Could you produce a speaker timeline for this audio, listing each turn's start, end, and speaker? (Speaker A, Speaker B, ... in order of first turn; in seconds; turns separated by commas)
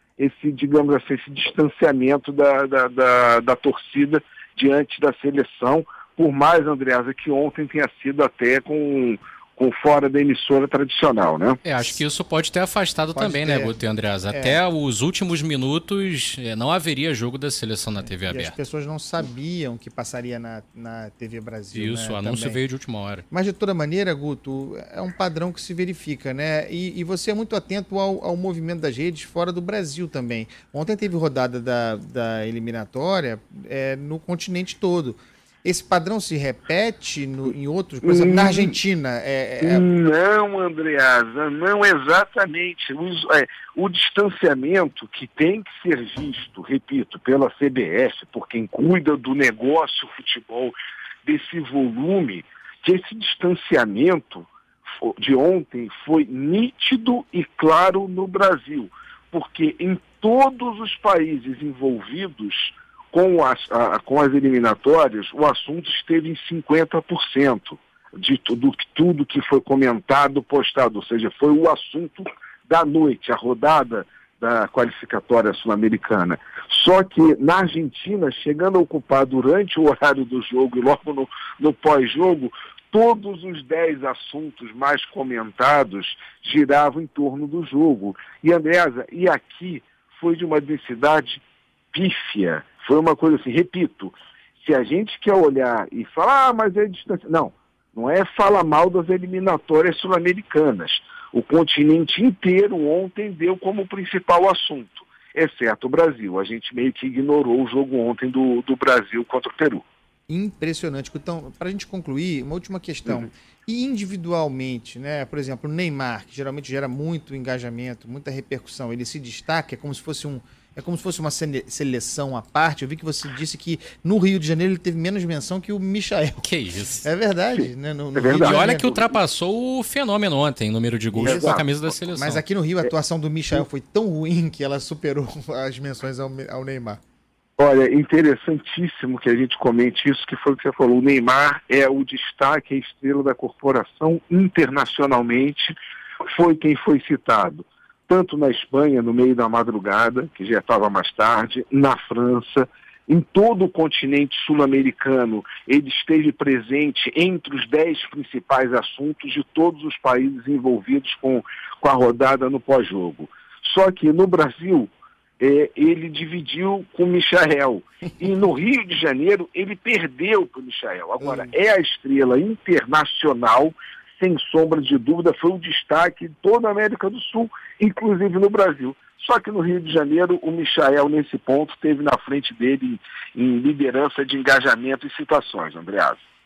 Speaker A: 0.2-11.6, Speaker B: 11.6-18.5, Speaker C: 13.2-14.6, Speaker C: 18.2-22.6, Speaker B: 21.7-23.2, Speaker C: 23.3-39.8, Speaker A: 38.0-38.8, Speaker A: 39.6-54.5, Speaker A: 55.0-91.4, Speaker A: 91.9-109.8, Speaker C: 110.3-129.1, Speaker B: 126.4-127.0, Speaker A: 127.5-128.8, Speaker B: 128.4-132.4, Speaker C: 131.1-131.6, Speaker A: 131.2-131.7, Speaker C: 132.1-137.0, Speaker A: 137.6-145.7, Speaker A: 146.3-186.2, Speaker C: 171.2-171.5